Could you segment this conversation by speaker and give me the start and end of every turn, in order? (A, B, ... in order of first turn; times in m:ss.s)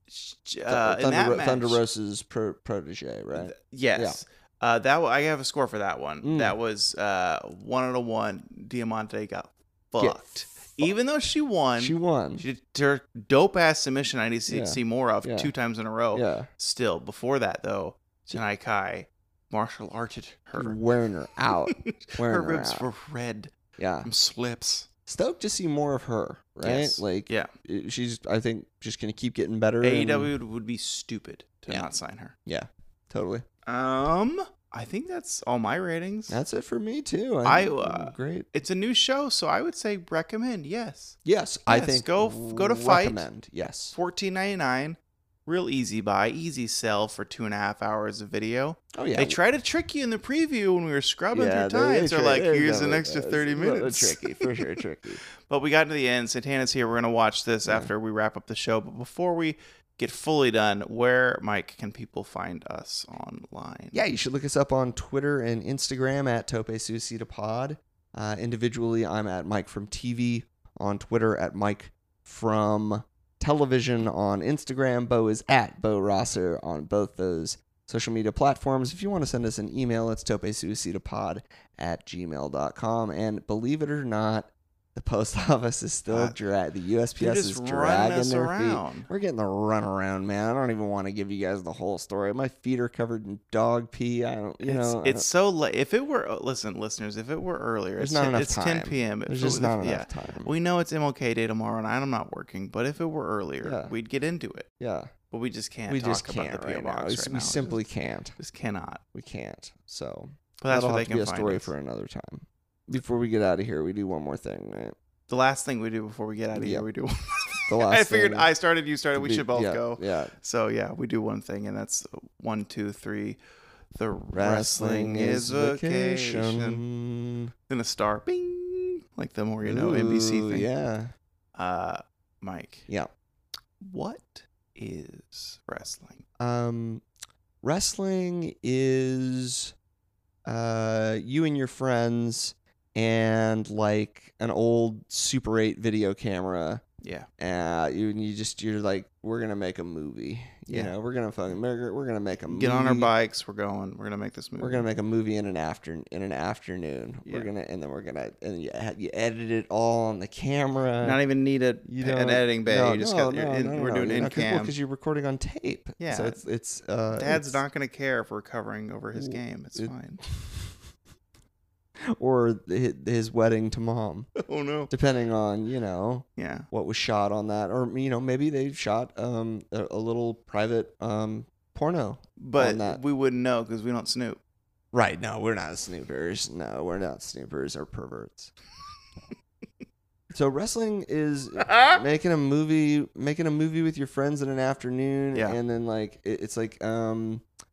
0:00.1-0:01.8 A
0:00.7-0:04.2 B
0:03.3-0:20.8 A
0:06.2-0:06.6 B
0:10.0-0:10.9 B
0:11.8-0:12.4 B
0:14.5-0:15.5 B
0:16.1-0:16.5 B
0:20.5-0:22.8 B
0:21.7-0:23.5 A
0:23.8-0:24.1 B
0:24.0-0:24.9 A
0:25.1-0:30.3 B
0:26.6-0:27.5 A
0:29.8-0:32.4 A
0:32.5-0:33.4 B
0:33.7-0:36.4 A
0:36.3-0:38.5 B
0:37.4-0:41.2 A
0:41.2-0:44.0 B
0:41.7-0:43.3 A
0:43.9-0:54.6 A
0:49.0-0:49.4 B
0:51.3-0:55.2 B
0:55.5-1:04.0 A
0:57.6-0:57.9 B
1:03.9-1:35.2 B
1:26.1-1:26.4 A
1:27.2-1:29.1 A
1:34.6-1:44.7 A
1:38.0-1:40.5 B
1:43.6-1:43.9 B
1:44.8-1:45.1 B
1:45.3-1:47.8 A
1:45.9-1:48.4 B
1:48.4-1:49.0 A
1:49.1-1:55.0 B
1:50.6-1:51.7 A
1:55.3-2:03.4 A
1:56.6-1:56.8 B
1:57.7-1:58.5 B
1:59.1-2:00.3 B
2:04.0-2:06.8 A
2:04.3-2:07.5 B
2:07.7-2:10.7 A
2:09.6-2:11.1 B
2:11.6-2:12.9 A
2:13.8-2:16.2 A
2:16.4-2:17.0 B
2:17.6-2:19.7 B
2:20.5-2:26.8 B
2:27.0-2:27.3 A
2:27.4-2:33.1 B
2:30.7-2:31.0 A
2:32.5-2:34.8 A
2:34.6-2:41.2 B
2:37.2-2:37.5 A
2:41.0-2:44.7 A
2:41.8-2:47.6 B
2:46.0-2:46.4 A
2:47.1-2:50.2 A
2:49.2-2:50.7 B
2:52.1-2:54.3 B
2:54.4-2:54.9 A
2:54.9-3:03.0 B
2:56.4-2:56.7 A
3:02.4-3:04.4 A
3:04.9-3:08.5 B
3:10.3-3:17.4 B
3:11.6-3:12.0 A
3:15.3-3:15.6 A